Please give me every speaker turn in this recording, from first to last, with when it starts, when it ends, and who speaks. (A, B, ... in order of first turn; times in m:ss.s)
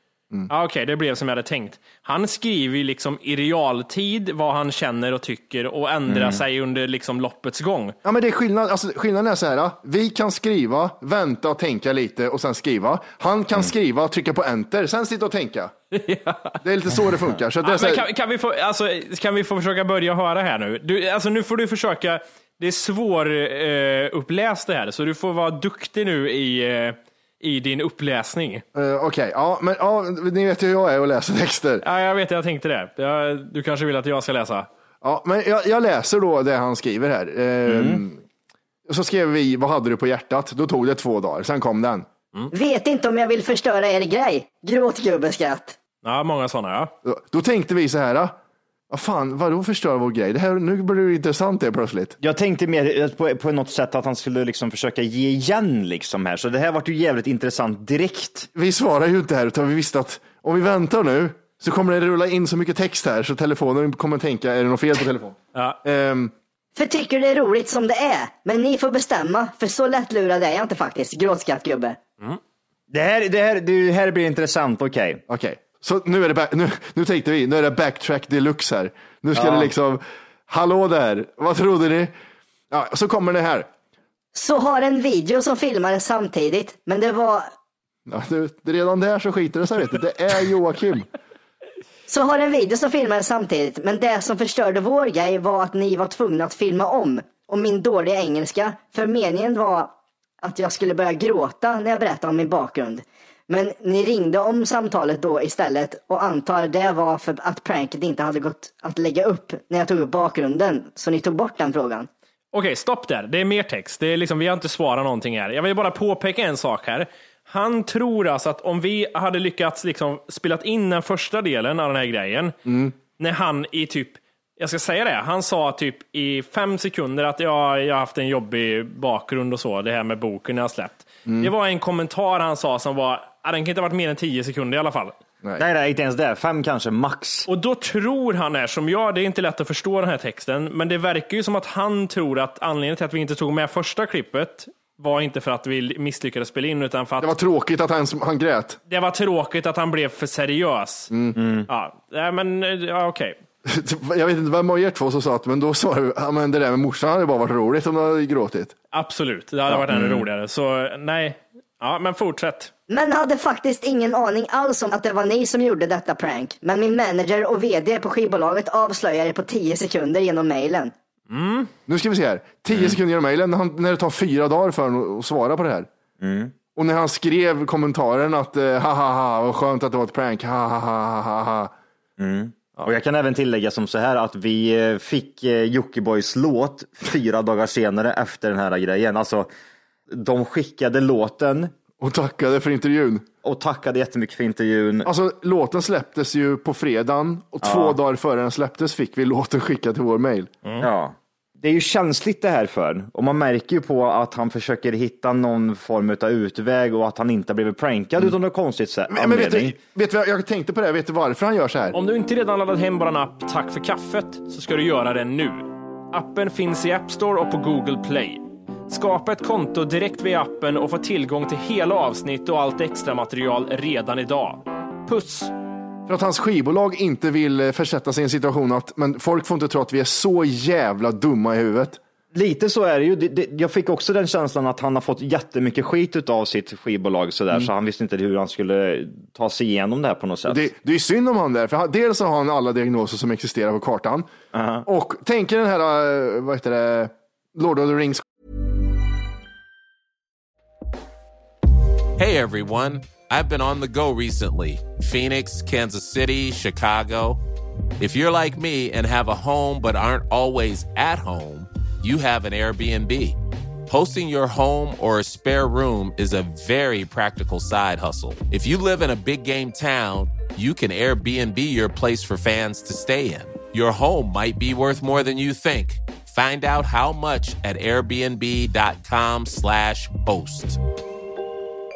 0:00.5-0:08.0 A
0:06.1-0:06.4 B
0:08.0-0:15.7 C
0:15.9-0:16.6 A
0:16.6-0:18.0 C
0:17.6-0:28.6 A
0:28.8-0:31.8 C
0:31.8-0:34.7 A
0:35.0-0:38.2 C
0:37.6-0:38.0 B
0:38.9-0:42.1 C
0:42.5-0:45.8 D
0:46.0-0:46.9 A
0:47.0-0:48.4 C
0:48.9-0:52.2 C
0:52.2-0:58.5 B
0:58.5-1:06.3 C
1:06.8-1:12.0 D
1:12.9-1:15.2 B
1:15.3-1:22.1 C
1:19.4-1:19.7 B
1:22.7-1:23.7 C
1:24.3-1:27.5 D
1:28.1-1:31.1 C
1:32.1-1:39.9 D
1:40.4-1:52.1 D
1:52.5-2:02.5 A
2:02.6-2:02.9 C
2:03.2-2:15.2 A
2:11.2-2:11.5 C
2:15.6-2:17.5 B
2:17.5-2:27.3 A
2:27.2-2:28.8 C
2:28.9-2:31.1 A
2:31.1-2:31.4 C
2:31.4-2:31.7 B
2:31.7-2:33.4 A
2:33.6-2:38.8 C
2:38.9-2:42.7 A
2:39.7-2:40.2 C
2:42.9-2:50.9 D
2:51.3-2:51.7 A
2:51.9-2:55.9 C
2:56.2-2:56.5 B
2:56.8-3:01.7 C
3:02.2-3:09.5 B
3:10.1-3:11.7 B
3:12.0-3:13.2 C
3:13.4-3:15.1 B
3:15.0-3:20.5 C
3:17.6-3:18.0 B
3:20.8-3:29.8 B
3:29.1-3:32.0 C
3:31.9-3:45.5 A
3:46.1-3:52.0 C
3:52.3-4:00.6 B
4:00.5-4:04.3 C
4:04.5-4:04.8 B
4:04.8-4:08.2 C
4:12.2-4:17.4 E
4:18.0-4:23.4 E
4:23.9-4:40.8 E